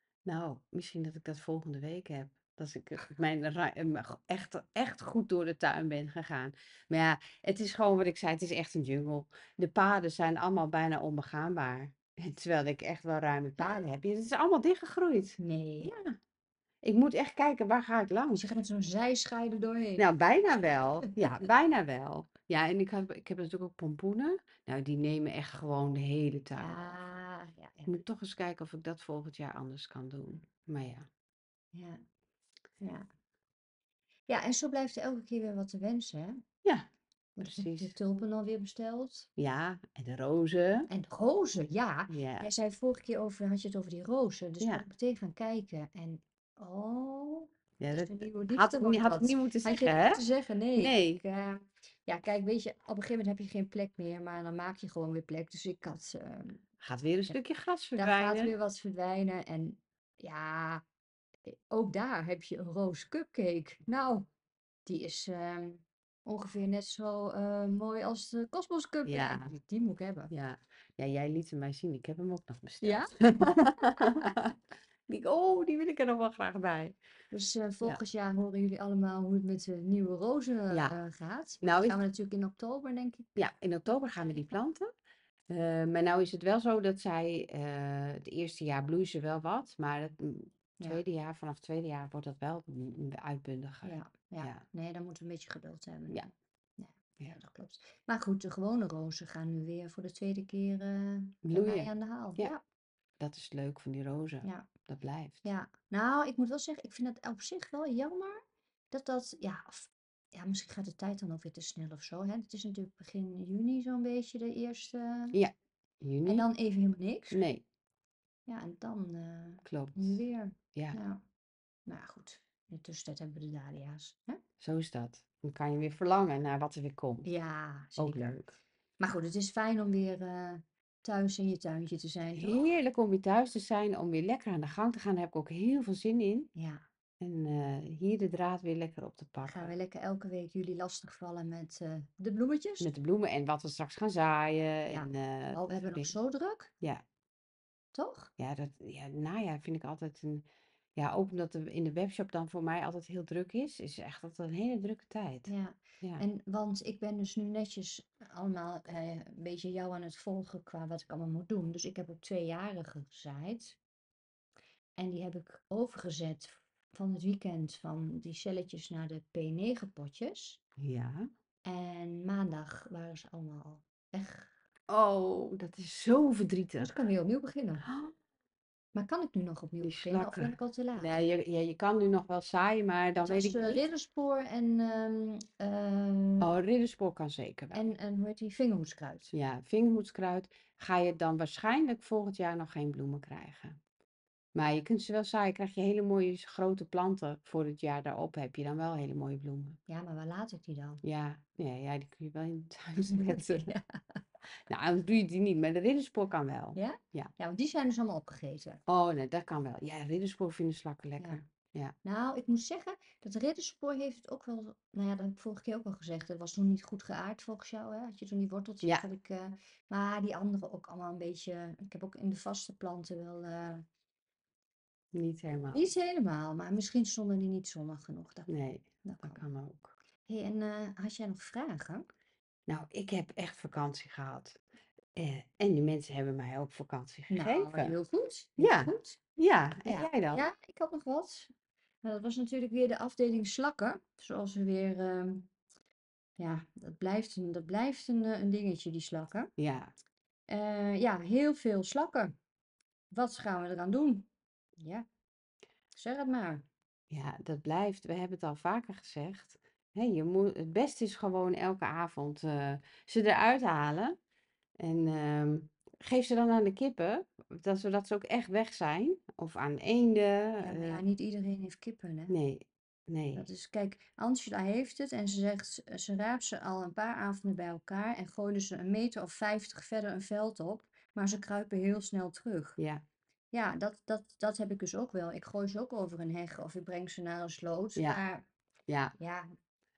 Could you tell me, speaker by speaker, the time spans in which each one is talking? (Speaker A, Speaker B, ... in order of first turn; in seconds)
Speaker A: 0.2-16.1, 16.8-18.5, 20.0-26.8, 27.9-31.1, 36.6-36.9, 37.4-37.9, 39.4-40.9, 42.1-42.5, 44.6-44.9, 47.8-50.2, 50.8-51.2, 56.8-58.5, 69.1-69.5, 70.3-74.6, 75.1-77.0, 80.7-81.0, 81.6-82.0, 83.4-84.9, 85.5-94.6, 101.4-102.5, 103.2-105.5, 115.3-116.5, 117.3-117.6, 119.6-121.0, 124.6-127.3, 128.0-128.5, 132.4-136.5, 137.2-139.7, 142.8-146.1, 148.4-150.4, 150.9-155.5, 170.8-171.3, 174.9-176.9, 177.8-178.1, 179.8-183.8, 186.4-187.8, 189.3-193.8, 194.5-199.8, 201.0-203.7, 204.7-207.3, 208.9-211.9, 225.1-225.8, 228.5-229.9, 232.7-234.6, 235.2-237.9, 238.6-240.4, 249.6-249.9, 257.1-264.2, 264.8-271.1, 272.3-273.5, 282.8-283.0, 287.9-288.2, 288.9-289.1
Speaker B: 15.4-15.9, 18.3-20.1, 26.6-28.0, 31.7-32.0, 32.8-33.1, 34.3-36.4, 37.4-39.3, 40.9-56.6, 58.0-60.8, 61.5-64.2, 64.9-70.3, 72.8-74.4, 77.3-83.3, 93.8-102.6, 104.4-104.7, 105.4-108.4, 108.9-115.4, 116.2-117.4, 118.5-121.2, 121.9-124.4, 127.2-128.4, 129.0-132.7, 136.6-136.8, 139.4-142.9, 144.9-146.7, 147.9-148.3, 155.5-163.8, 165.0-170.6, 171.6-174.5, 176.8-177.9, 178.9-181.1, 183.2-186.5, 187.7-189.3, 199.9-201.0, 203.0-204.2, 206.8-208.8, 212.0-223.8, 225.7-228.5, 229.0-229.4, 230.3-232.1, 237.3-239.2, 239.8-241.5, 242.0-245.5, 246.4-249.5, 250.5-252.3, 253.1-254.3, 254.8-255.1, 255.9-256.6, 270.6-272.3, 273.4-282.8, 283.5-288.4, 289.2-289.5